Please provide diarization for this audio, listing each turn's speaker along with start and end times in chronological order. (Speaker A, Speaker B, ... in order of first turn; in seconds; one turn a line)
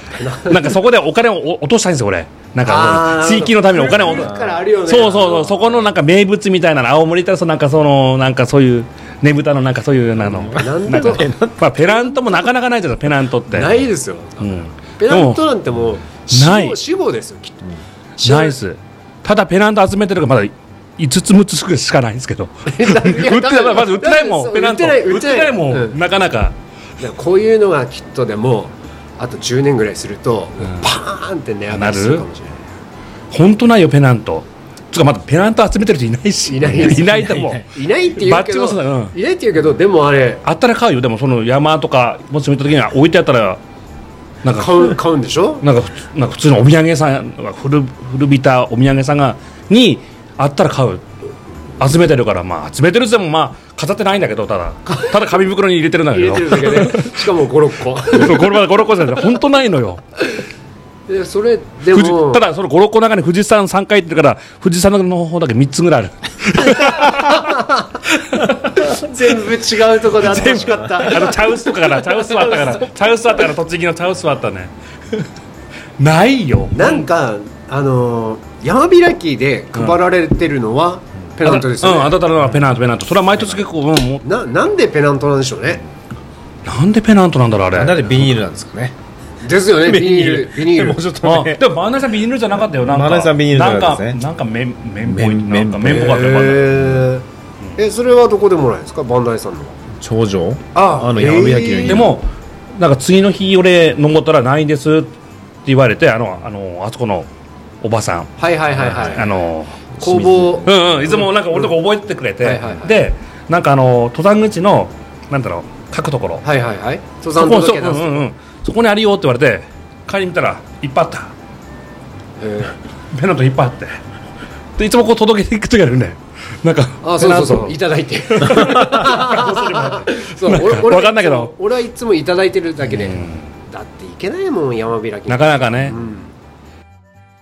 Speaker A: 0.1-0.8
Speaker B: 0.5-13.9
Speaker A: 2.6-5.5
Speaker C: 3.7-5.9
Speaker C: 10.2-11.6
Speaker A: 10.5-11.3
Speaker A: 13.5-17.7
Speaker B: 14.4-15.5
Speaker B: 16.3-16.8
Speaker A: 18.2-18.6
Speaker B: 18.2-26.6
Speaker A: 22.7-26.0
Speaker A: 27.0-32.5
Speaker B: 30.6-30.9
Speaker B: 31.7-32.2
Speaker B: 33.3-39.1
Speaker A: 36.5-40.4
Speaker C: 36.9-37.6
Speaker B: 40.4-43.6
Speaker B: 44.4-45.0
Speaker A: 44.5-45.6
Speaker B: 45.6-51.0
Speaker B: 51.8-57.2
Speaker A: 56.1-58.6
Speaker B: 58.1-60.0
Speaker A: 61.1-62.4
Speaker B: 61.9-69.1
Speaker A: 66.7-67.9
Speaker A: 68.8-72.8
Speaker B: 70.2-75.3
Speaker C: 70.4-71.1
Speaker B: 76.0-77.1
Speaker A: 76.7-82.2
Speaker B: 81.4-84.2
Speaker A: 84.2-85.8
Speaker B: 86.7-88.4
Speaker C: 87.7-89.0
Speaker A: 89.4-91.0
Speaker C: 89.7-91.7
Speaker B: 91.2-97.0
Speaker C: 92.7-94.2
Speaker C: 95.0-96.2
Speaker A: 95.9-99.8
Speaker C: 100.0-102.2
Speaker A: 100.7-102.2
Speaker B: 101.9-105.1
Speaker B: 105.7-107.3
Speaker B: 107.8-109.9
Speaker A: 108.4-109.3
Speaker A: 110.0-111.8
Speaker C: 110.0-110.8
Speaker B: 110.7-116.5
Speaker A: 112.4-113.0
Speaker A: 116.4-118.2
Speaker B: 117.4-121.3
Speaker A: 122.4-122.8
Speaker B: 123.1-123.9
Speaker B: 124.8-131.5
Speaker A: 127.0-136.3
Speaker B: 132.8-133.5
Speaker B: 135.3-136.0